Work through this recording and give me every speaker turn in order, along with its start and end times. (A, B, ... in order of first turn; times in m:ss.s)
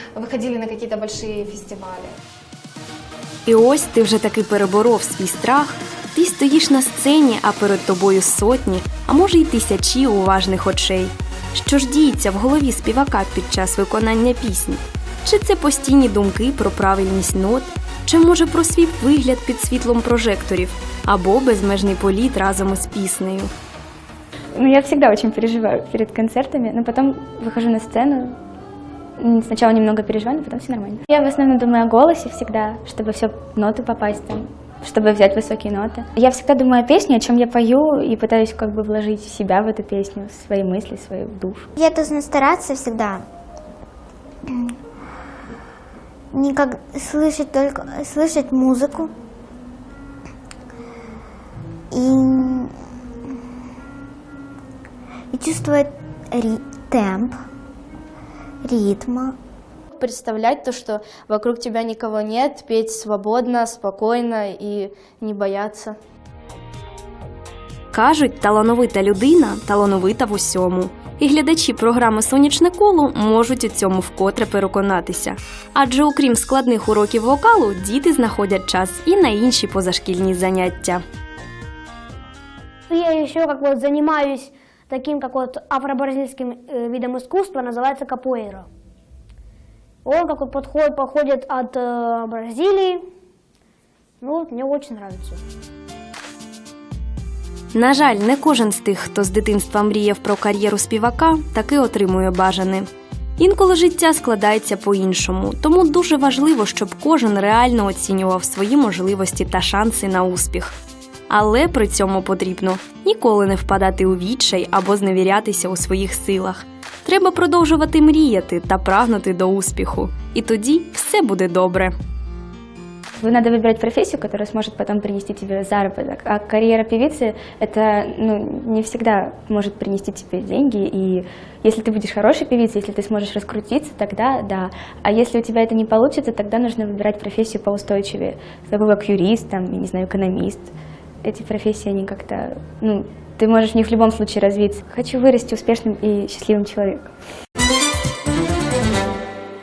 0:00.2-0:02.1 A
0:03.5-0:23.5 B
0:24.6-0:28.4 C
0:29.2-0:41.7 C
0:41.8-0:43.2 D
0:46.3-0:49.1 D
0:51.9-0:52.7 D
0:55.3-0:57.4 D
0:58.6-0:59.4 D
0:59.9-1:06.0 E
1:07.9-1:21.0 B
1:22.9-1:28.7 F
1:30.0-1:33.0 F
1:34.2-1:35.4 F
1:37.7-1:50.8 B
1:51.3-2:02.0 B
2:03.2-2:27.1 C